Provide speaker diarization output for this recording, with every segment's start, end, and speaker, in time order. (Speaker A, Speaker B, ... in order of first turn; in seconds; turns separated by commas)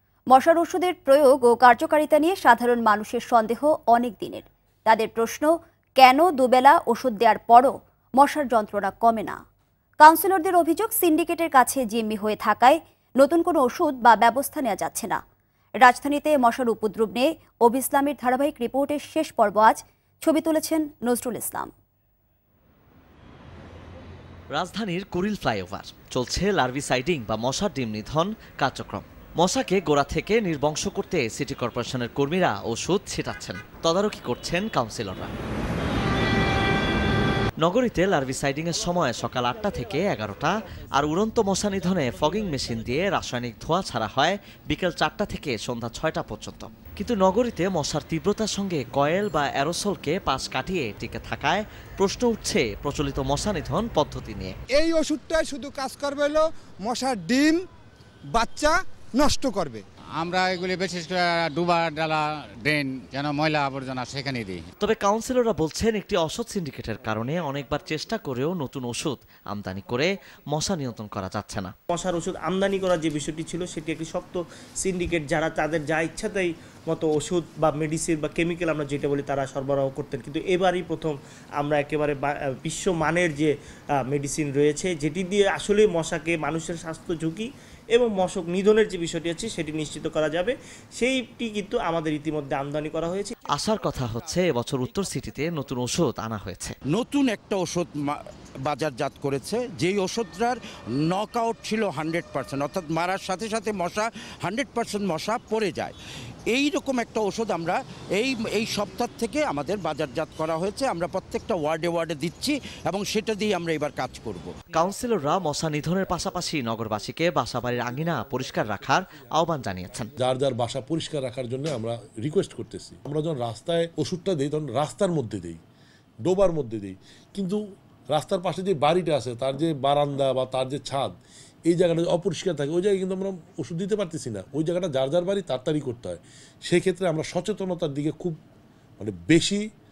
Speaker A: 0.3-9.4, Speaker A: 10.0-15.2, Speaker A: 15.8-21.7, Speaker B: 24.5-35.3, Speaker B: 37.6-54.5, Speaker C: 54.7-57.6, Speaker C: 58.3-59.8, Speaker D: 60.2-64.6, Speaker B: 64.8-71.7, Speaker E: 71.9-83.5, Speaker E: 84.0-93.3, Speaker B: 93.5-96.8, Speaker F: 96.9-100.6, Speaker F: 101.1-106.0, Speaker F: 106.5-114.6, Speaker B: 114.7-120.1, Speaker G: 118.6-118.9, Speaker G: 120.2-125.6, Speaker G: 126.2-127.6, Speaker G: 128.1-131.1, Speaker G: 131.7-138.4, Speaker G: 139.0-139.6